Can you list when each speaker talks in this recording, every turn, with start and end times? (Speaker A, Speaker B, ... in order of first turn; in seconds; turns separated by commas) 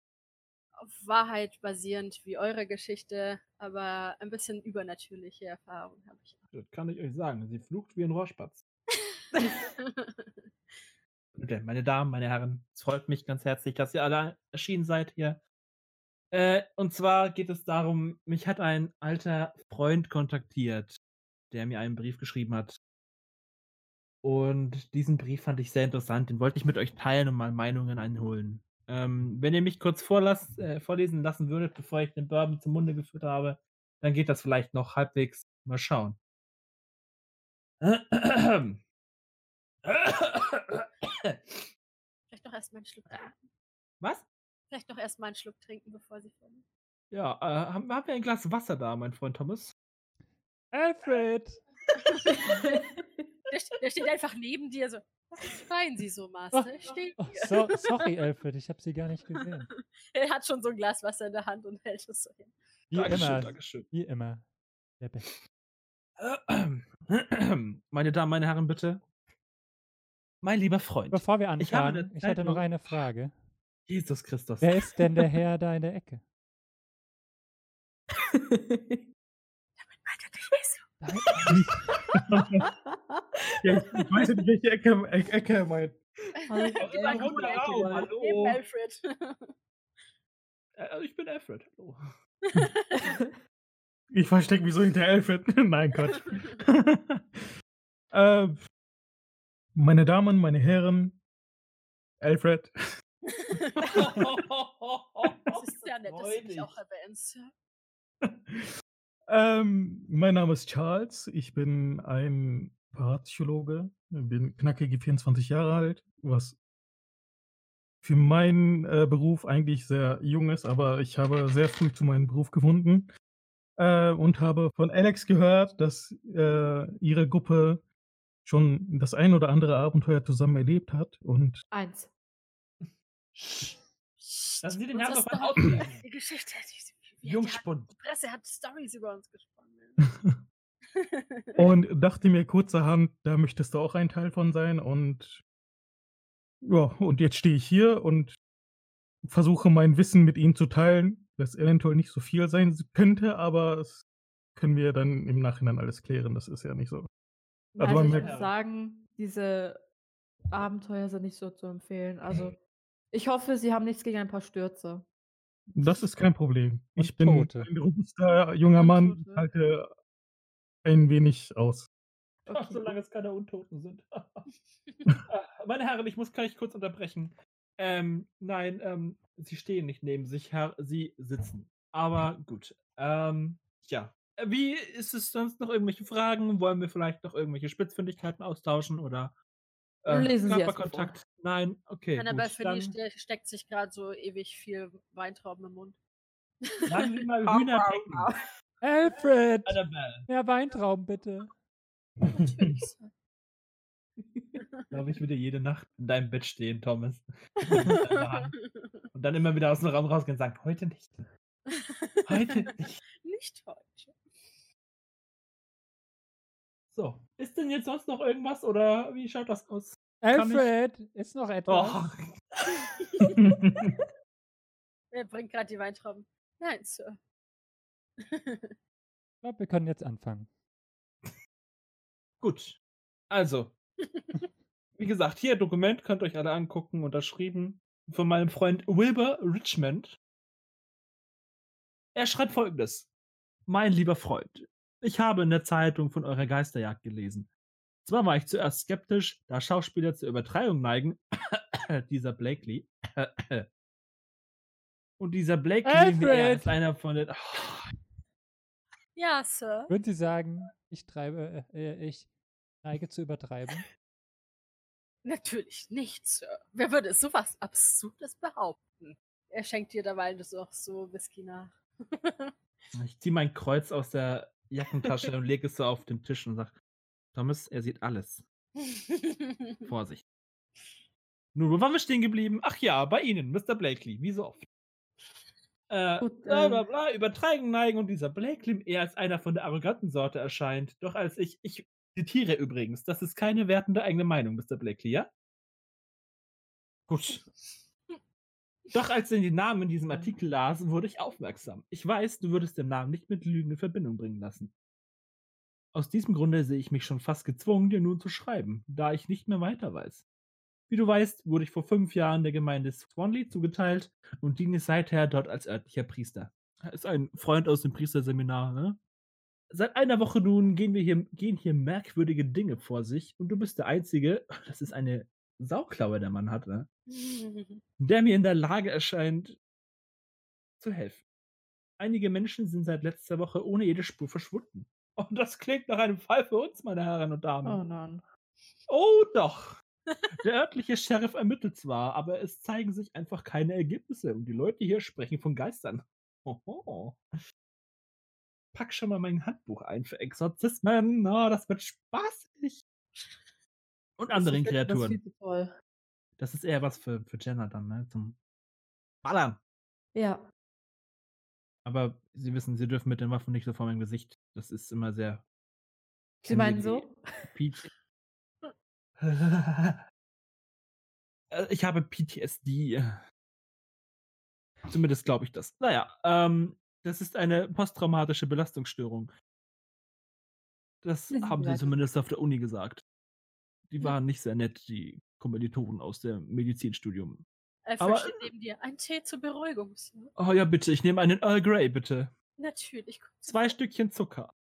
Speaker A: 0.8-6.4, Speaker B: 6.5-8.6, Speaker A: 9.3-10.5, Speaker B: 11.3-15.4, Speaker B: 16.3-21.0, Speaker B: 21.5-22.8, Speaker B: 24.2-36.2, Speaker B: 37.8-38.8, Speaker B: 39.8-41.7, Speaker A: 42.3-43.5, Speaker B: 44.0-44.2, Speaker A: 44.7-46.6, Speaker B: 47.1-49.7, Speaker C: 50.7-51.6, Speaker A: 52.1-52.8, Speaker D: 52.3-53.0, Speaker A: 53.5-58.0, Speaker C: 56.5-59.7, Speaker A: 59.7-62.5, Speaker C: 62.9-64.5, Speaker B: 62.9-63.9, Speaker C: 65.0-65.3, Speaker B: 66.2-69.0, Speaker B: 70.4-73.0, Speaker C: 71.1-73.3, Speaker B: 73.9-74.9, Speaker C: 74.6-76.2, Speaker D: 78.3-79.0, Speaker A: 79.8-81.0, Speaker C: 81.0-81.9, Speaker E: 82.1-82.6, Speaker D: 82.6-84.3, Speaker E: 83.6-86.0, Speaker D: 86.5-88.1, Speaker A: 86.5-89.5, Speaker B: 86.8-88.6, Speaker B: 90.8-92.0, Speaker A: 92.5-93.1, Speaker E: 94.1-97.3, Speaker A: 96.1-96.5, Speaker E: 98.1-98.6, Speaker E: 99.7-101.2, Speaker E: 102.2-102.7, Speaker A: 103.4-104.1, Speaker B: 103.8-106.7, Speaker A: 105.5-107.5, Speaker E: 109.3-116.6, Speaker E: 118.0-123.1, Speaker E: 123.8-127.8, Speaker E: 128.4-131.6, Speaker D: 131.7-132.1, Speaker B: 132.8-133.7, Speaker A: 134.2-140.0, Speaker B: 134.6-136.0, Speaker B: 137.2-137.9, Speaker A: 140.9-141.5, Speaker E: 141.6-145.4, Speaker E: 146.6-148.3, Speaker E: 149.2-154.0, Speaker E: 154.6-157.1, Speaker B: 157.7-158.5, Speaker E: 157.8-158.3, Speaker D: 157.8-159.8, Speaker D: 160.5-162.6, Speaker D: 163.1-165.0, Speaker E: 165.8-169.9, Speaker C: 167.0-167.7, Speaker A: 168.8-169.5, Speaker E: 170.8-171.9, Speaker D: 172.4-172.9, Speaker B: 172.5-174.4, Speaker B: 175.2-189.3, Speaker B: 190.0-192.9, Speaker D: 190.1-191.1, Speaker A: 192.1-196.0, Speaker A: 196.8-197.2, Speaker B: 196.8-198.2, Speaker D: 197.4-198.4, Speaker C: 198.8-201.5, Speaker B: 199.6-200.3, Speaker A: 202.3-203.1, Speaker A: 204.6-204.9, Speaker B: 204.9-208.5, Speaker A: 207.7-209.0, Speaker B: 209.1-211.2, Speaker A: 211.8-212.5, Speaker B: 212.2-213.0, Speaker A: 213.2-214.2, Speaker B: 216.9-220.7, Speaker C: 220.2-222.0, Speaker B: 221.7-222.6, Speaker A: 222.8-223.3, Speaker B: 223.2-223.8, Speaker E: 223.4-223.7, Speaker A: 225.1-227.2, Speaker A: 228.2-228.7, Speaker C: 229.4-230.5, Speaker B: 232.4-232.8, Speaker B: 233.3-233.7, Speaker A: 234.0-234.5, Speaker B: 235.0-240.2, Speaker B: 242.1-243.1, Speaker B: 243.7-247.5, Speaker B: 248.0-253.7, Speaker B: 255.2-257.9, Speaker C: 255.8-256.8, Speaker A: 259.1-259.9, Speaker C: 259.9-262.3, Speaker C: 262.8-263.9, Speaker A: 265.2-272.5, Speaker B: 272.9-276.8, Speaker B: 277.3-278.4, Speaker A: 278.8-279.9, Speaker B: 279.9-280.2, Speaker B: 281.5-284.6, Speaker B: 285.9-295.3, Speaker D: 286.2-286.9, Speaker B: 297.1-297.5, Speaker B: 298.9-304.7, Speaker D: 300.1-300.3, Speaker B: 305.9-310.2, Speaker B: 310.9-319.0, Speaker B: 319.7-326.9, Speaker A: 327.1-327.8, Speaker B: 328.0-329.6, Speaker B: 330.8-331.2, Speaker B: 332.0-337.8, Speaker D: 337.6-338.2, Speaker B: 338.9-339.8, Speaker B: 340.4-347.2, Speaker B: 348.7-352.8, Speaker B: 354.2-355.2, Speaker D: 354.3-355.7, Speaker B: 356.4-358.4, Speaker B: 359.2-359.6, Speaker D: 360.1-360.4, Speaker B: 361.8-365.4, Speaker D: 366.4-367.2, Speaker B: 366.4-367.9, Speaker B: 369.2-370.0, Speaker B: 371.5-373.2, Speaker B: 374.9-379.3, Speaker B: 381.0-383.0, Speaker D: 381.3-382.0, Speaker B: 383.9-387.4, Speaker A: 387.8-390.3, Speaker B: 388.0-388.4, Speaker B: 390.4-392.3, Speaker A: 392.6-393.8, Speaker B: 393.5-394.5